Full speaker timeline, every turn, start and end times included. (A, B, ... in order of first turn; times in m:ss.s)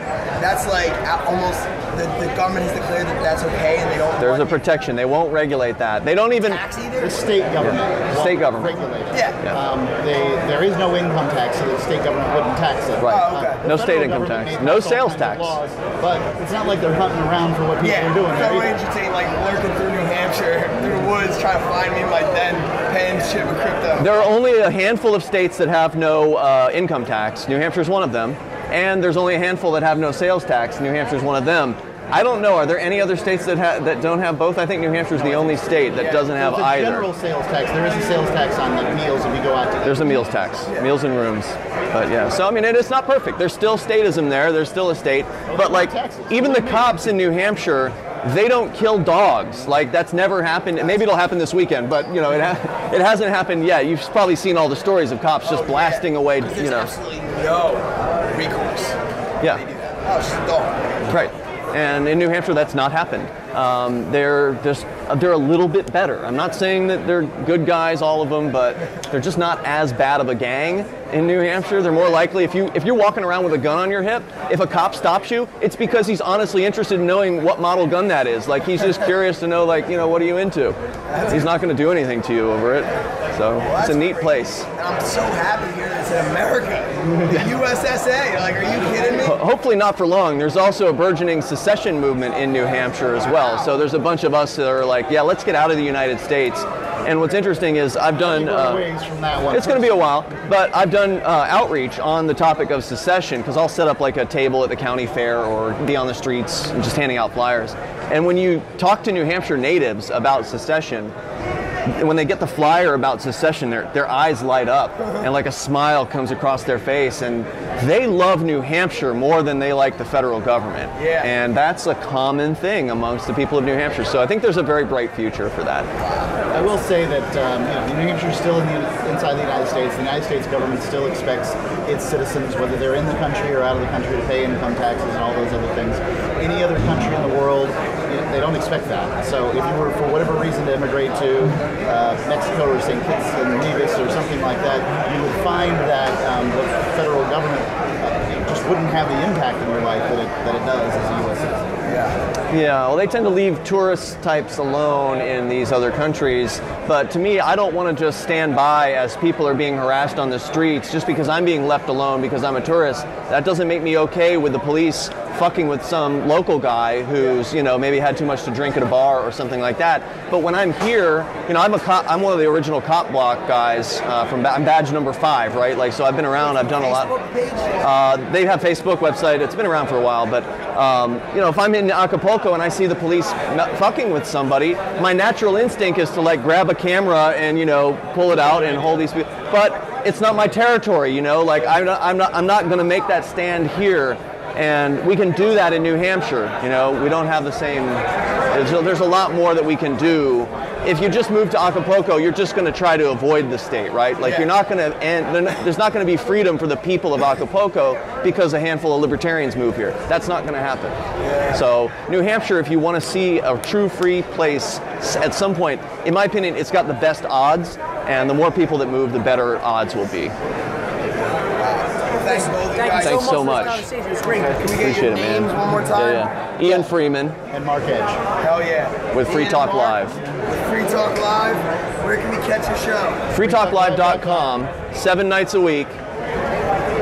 0:00.4-0:04.6 A
0:04.2-0:06.6 B
0:06.4-0:07.4 A
0:07.0-0:18.7 C
0:08.1-0:08.8 B
0:09.1-0:09.4 A
0:13.0-0:15.6 B
0:13.0-0:13.6 A
0:17.8-0:24.2 A
0:24.0-0:37.1 B
0:35.2-0:40.3 C
0:35.9-0:36.3 A
0:39.8-0:56.9 B
0:45.5-0:46.9 C
0:55.4-1:01.1 A
1:01.1-1:24.6 B
1:21.1-1:21.4 A
1:23.6-1:29.4 A
1:29.2-1:38.8 B
1:38.2-1:40.1 C
1:39.5-1:51.1 B
1:51.9-2:05.9 B
2:01.0-2:01.3 A
2:06.0-2:06.5 A
2:06.5-2:31.7 C
2:31.9-2:32.2 A
2:32.5-2:57.1 B
2:56.4-2:57.8 A
2:57.8-3:31.0 B
3:24.2-3:24.5 A
3:31.2-3:31.6 A
3:31.5-3:40.3 B
3:41.5-3:43.5 A
3:42.2-3:44.8 D
3:43.0-3:43.8 B
3:44.6-3:46.3 A
3:44.8-3:47.4 B
3:46.6-3:46.9 C
3:47.5-3:48.2 C
3:48.4-3:50.0 A
3:49.1-3:50.2 B
3:50.5-3:53.3 A
3:53.3-3:56.0 B
3:53.4-3:54.6 C